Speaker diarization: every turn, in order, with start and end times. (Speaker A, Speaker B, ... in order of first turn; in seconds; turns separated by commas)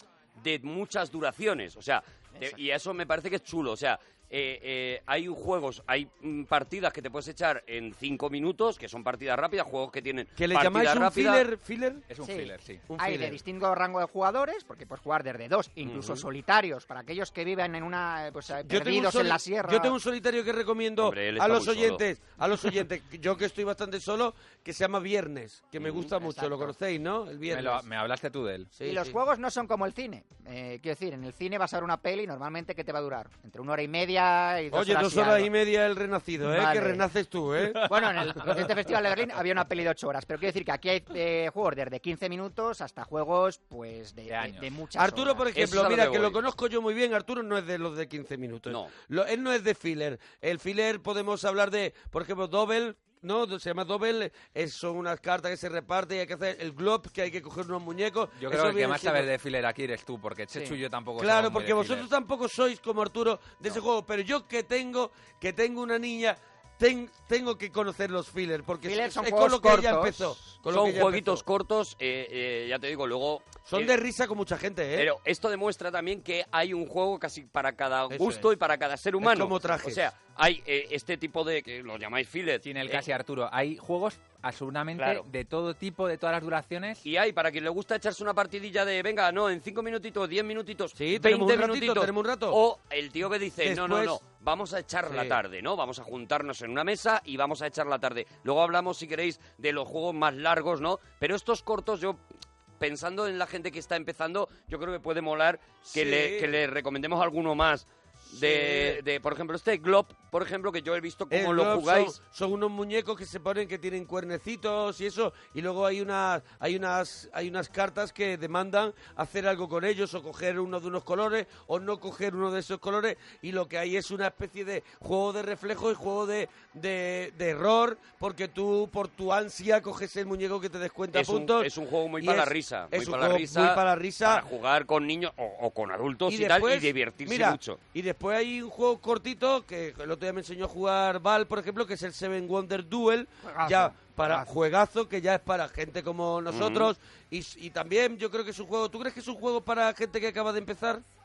Speaker A: 0.3-11.4, Speaker B: 10.4-12.0, Speaker C: 12.1-12.9, Speaker D: 12.2-19.9, Speaker B: 12.9-13.4, Speaker B: 18.6-27.8, Speaker A: 21.0-22.0, Speaker A: 25.8-26.1, Speaker D: 26.2-26.7, Speaker C: 27.5-28.7, Speaker B: 28.8-29.2, Speaker D: 28.8-35.5, Speaker B: 34.7-38.3, Speaker D: 36.4-37.0, Speaker D: 37.9-45.5, Speaker C: 44.3-44.7, Speaker B: 45.0-59.3, Speaker A: 45.5-46.4, Speaker C: 58.4-62.1, Speaker D: 60.5-60.8, Speaker B: 61.2-71.4, Speaker D: 68.8-70.4, Speaker A: 70.7-73.9, Speaker B: 73.7-75.1, Speaker A: 75.0-83.0, Speaker B: 78.1-78.5, Speaker B: 79.2-80.1, Speaker C: 82.6-87.0, Speaker A: 84.9-85.2, Speaker A: 87.0-102.2, Speaker B: 91.0-92.6, Speaker B: 93.6-94.2, Speaker B: 95.1-95.4, Speaker A: 102.8-112.2, Speaker B: 105.9-106.6, Speaker B: 108.3-109.0, Speaker B: 111.3-134.4, Speaker A: 131.1-137.8, Speaker B: 136.3-151.0, Speaker D: 143.4-144.5, Speaker A: 146.5-146.9